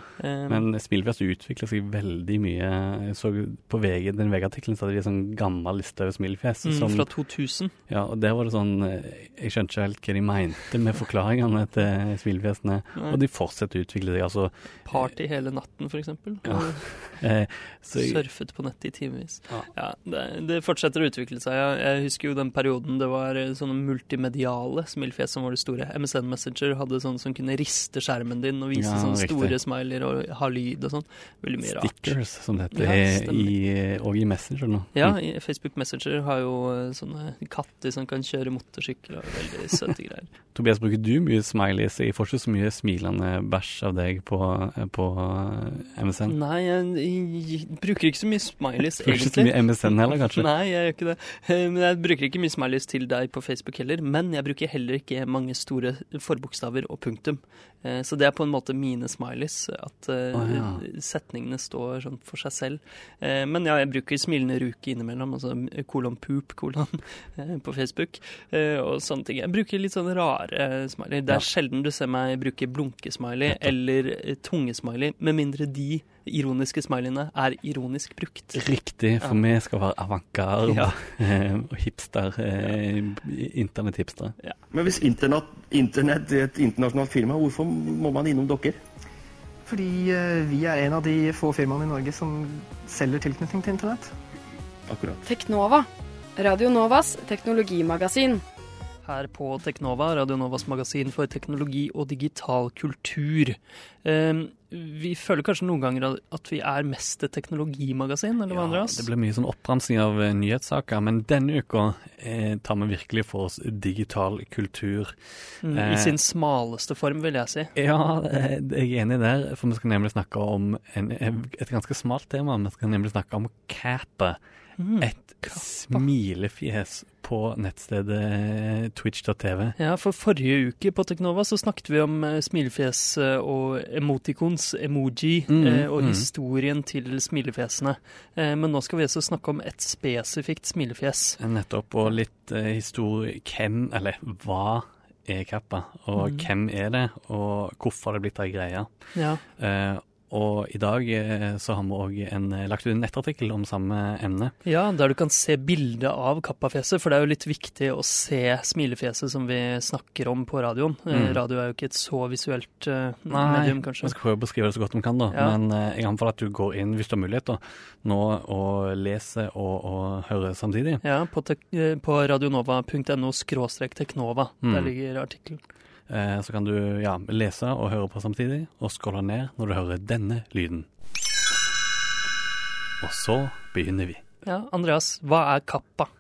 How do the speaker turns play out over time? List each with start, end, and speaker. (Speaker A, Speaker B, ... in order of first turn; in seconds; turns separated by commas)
Speaker A: 0.2-0.7, Speaker B: 0.5-7.1, Speaker A: 6.7-7.7, Speaker B: 7.9-15.1, Speaker A: 14.9-17.1, Speaker B: 16.4-18.2, Speaker A: 18.0-32.2, Speaker B: 28.7-29.6, Speaker B: 31.6-35.2, Speaker A: 32.7-33.5, Speaker A: 35.0-40.3, Speaker B: 40.5-46.4, Speaker A: 46.3-78.6, Speaker B: 49.0-50.5, Speaker B: 60.3-60.8, Speaker B: 73.5-73.7, Speaker B: 78.5-84.4, Speaker A: 80.7-81.1, Speaker C: 84.7-88.8, Speaker D: 89.7-94.1, Speaker C: 94.9-95.2, Speaker E: 95.2-98.4, Speaker A: 99.0-109.1, Speaker B: 108.5-116.2, Speaker A: 115.6-117.7, Speaker B: 117.8-124.4, Speaker A: 124.8-126.1, Speaker B: 125.0-129.8, Speaker A: 129.8-141.4, Speaker B: 135.5-136.3, Speaker B: 141.4-148.9, Speaker A: 146.2-146.4, Speaker A: 149.2-149.4, Speaker B: 149.6-154.6, Speaker A: 154.7-164.2, Speaker B: 161.1-161.4, Speaker B: 163.3-171.0, Speaker A: 165.3-165.6, Speaker A: 171.0-175.6, Speaker B: 174.6-174.9, Speaker B: 176.1-180.9, Speaker B: 183.0-184.2, Speaker A: 184.4-186.1